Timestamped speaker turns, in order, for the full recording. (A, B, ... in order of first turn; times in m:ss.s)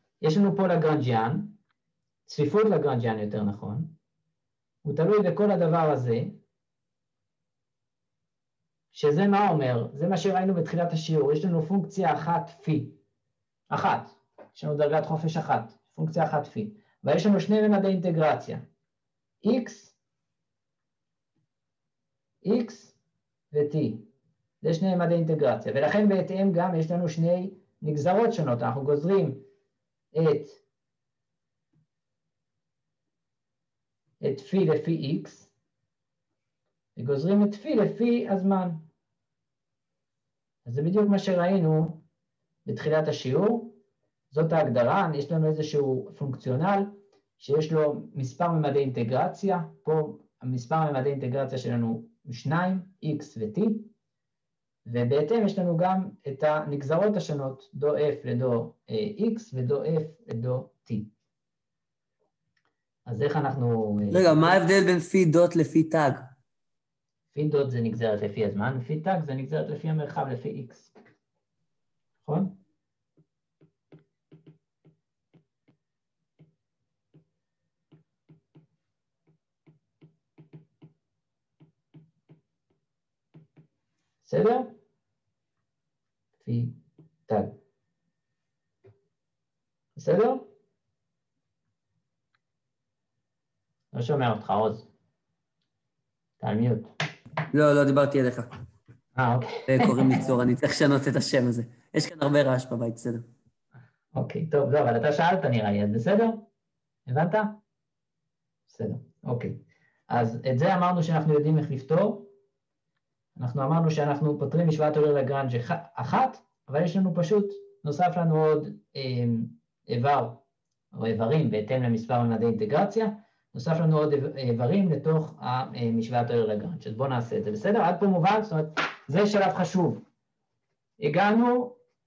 0:00.2-0:01.6 A
0:02.3-0:04.0 A
0:04.8-0:06.4 A
0:08.9-0:13.0 A
0:13.7-0:18.6 A
0:19.4-0:20.0 A
0:22.4-0:23.0 A
0:23.5-0:24.0 A
0:24.6-0:29.4 A
0:30.1-0:30.6 A
0:34.2-0:35.5 A
0:37.0-0:38.9 A
0:40.7-0:42.0 A
0:42.6-0:43.8 A
0:44.3-0:53.9 A
0:54.9-1:01.1 A
1:03.1-1:04.6 A
1:04.1-1:06.3 B
1:07.3-1:10.9 A
1:12.2-1:12.6 A
1:24.2-1:24.7 A
1:26.4-1:26.8 A
1:27.3-1:27.5 A
1:30.0-1:30.5 A
1:33.9-1:34.9 A
1:36.4-1:36.9 A
1:37.5-1:38.5 B
1:39.2-1:40.2 A
1:39.7-1:43.3 B
1:44.1-1:46.5 A
1:47.1-1:47.6 A
1:48.7-1:49.6 A
1:50.1-1:52.3 A
1:53.4-2:00.4 A
2:00.9-2:10.0 A
2:11.0-2:11.8 A